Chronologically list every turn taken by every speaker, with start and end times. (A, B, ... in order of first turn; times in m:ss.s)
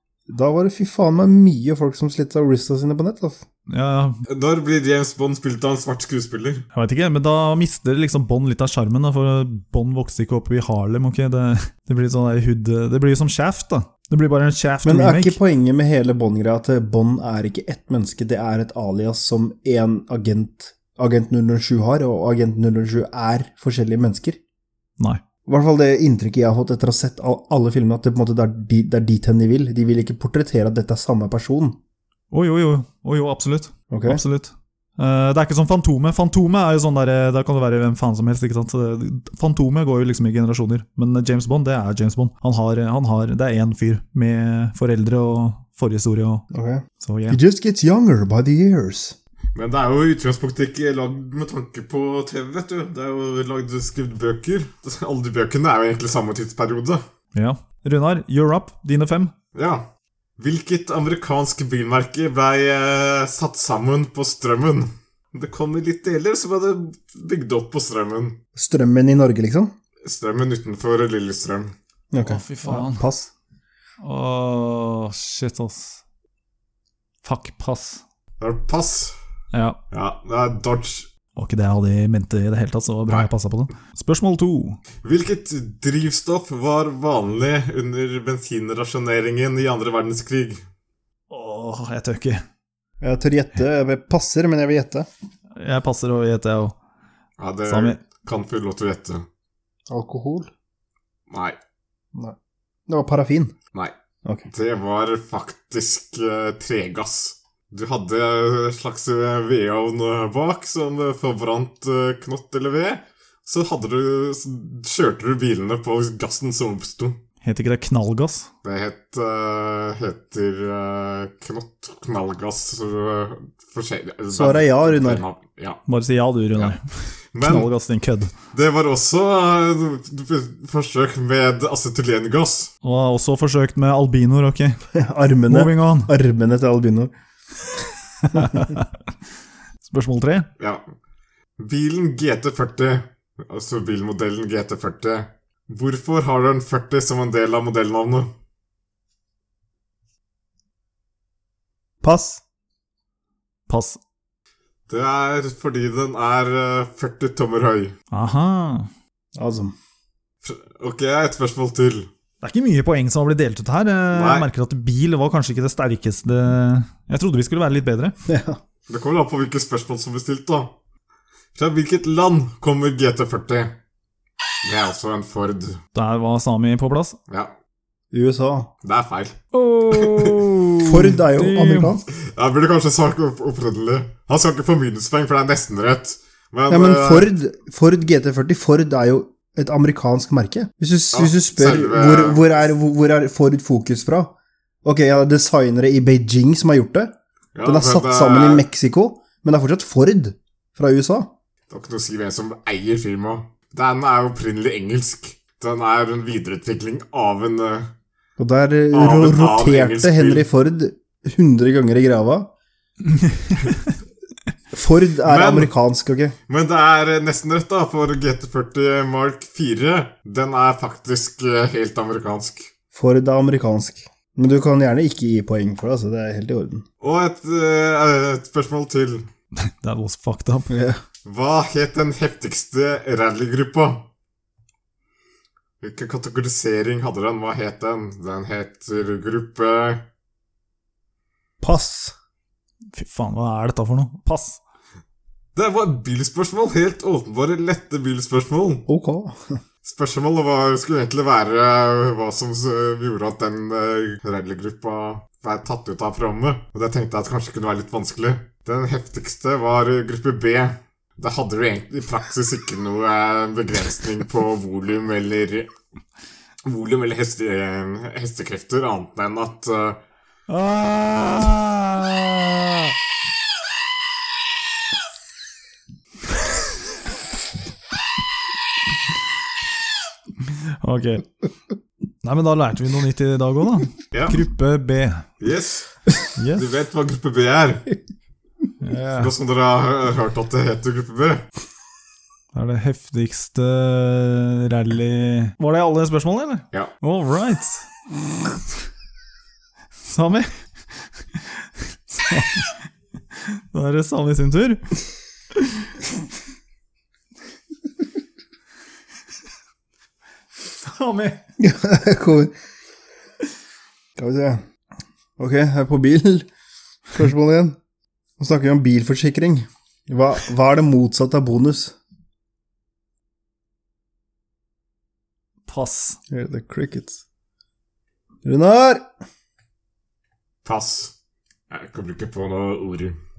0:00.3-0:03.4 A
0:03.7-0:04.2 B
0:04.3-0:06.6 C
0:06.7-0:15.4 B
0:14.8-0:24.4 A
0:25.5-0:31.8 A
0:32.3-0:46.5 B
0:33.9-0:34.2 A
0:46.5-0:49.2 A
0:47.0-0:47.4 B
0:49.6-0:57.0 C
0:57.4-0:59.3 B
0:59.5-0:59.8 C
1:00.4-1:08.4 C
1:08.6-1:09.7 A
1:10.0-1:11.7 C
1:12.1-1:13.3 A
1:12.2-1:13.0 B
1:14.0-1:16.0 B
1:17.2-1:18.0 B
1:18.4-1:19.2 C
1:19.5-1:19.8 B
1:19.9-1:21.1 C
1:21.4-1:24.8 B
1:25.0-1:30.6 C
1:31.3-1:32.4 B
1:33.0-1:35.1 A
1:35.6-1:36.8 B
1:37.4-1:39.3 C
1:37.7-1:38.0 B
1:39.9-1:40.5 A
1:41.3-1:41.6 C
1:42.9-1:43.5 A
1:44.5-1:57.2 C
1:57.4-1:58.5 B
1:58.6-2:05.8 C
2:04.3-2:05.2 A
2:05.9-2:08.3 B
2:07.3-2:07.7 C
2:08.5-2:12.7 C
2:12.8-2:14.8 B
2:14.9-2:17.1 A
2:15.5-2:16.1 B
2:18.2-2:18.9 B
2:18.3-2:18.7 A
2:19.8-2:20.5 B
2:20.6-2:20.8 C
2:21.6-2:28.3 C
2:32.0-2:32.4 A
2:33.7-2:34.0 B
2:34.9-2:37.9 C
2:38.1-2:38.9 B
2:39.4-2:39.8 A
2:40.4-2:42.1 C
2:42.4-2:48.1 B
2:44.1-2:44.5 C
2:48.3-2:48.6 A
2:48.9-2:50.7 C
2:51.6-2:53.8 C
2:54.6-2:55.8 C
2:55.9-2:57.2 B
2:58.1-2:58.7 A
2:58.8-2:59.4 C
2:59.5-3:02.0 B
2:59.9-3:00.5 C
3:00.8-3:02.1 A
3:02.2-3:07.3 C
3:06.7-3:14.3 A
3:11.1-3:12.6 C
3:14.8-3:17.1 A
3:17.6-3:18.6 C
3:17.6-3:21.3 A
3:21.7-3:27.9 C
3:28.4-3:32.5 A
3:28.9-3:30.5 C
3:33.1-3:33.8 B
3:34.7-3:36.4 A
3:35.2-3:35.7 C
3:36.5-3:42.7 C
3:42.9-3:46.8 A
3:47.0-3:49.3 C
3:49.6-3:50.7 B
3:50.7-3:51.0 A
3:51.2-3:54.0 C
3:55.8-4:00.0 C
4:01.6-4:02.1 A
4:03.0-4:04.6 B
4:05.6-4:08.9 C
4:08.9-4:09.6 A
4:09.8-4:25.7 C
4:26.7-4:30.0 C
4:30.5-4:32.9 B
4:40.4-4:41.3 B
4:42.2-4:45.3 B
4:44.1-4:44.4 C
4:45.4-4:46.0 C
4:46.4-4:46.7 B
4:46.6-4:47.9 C
4:48.8-4:49.3 B
4:49.2-4:51.5 C
4:52.5-4:57.9 B
5:00.0-5:00.5 B
5:01.4-5:02.8 B
5:03.4-5:04.9 B
5:05.6-5:05.9 B
5:10.8-5:11.4 B
5:11.6-5:12.5 A
5:14.2-5:14.6 A
5:15.4-5:16.5 A
5:17.1-5:17.8 A
5:18.4-5:22.0 A
5:25.7-5:26.2 B
5:26.3-5:27.2 A
5:28.4-5:29.1 A
5:30.6-5:31.1 C
5:31.7-5:33.2 C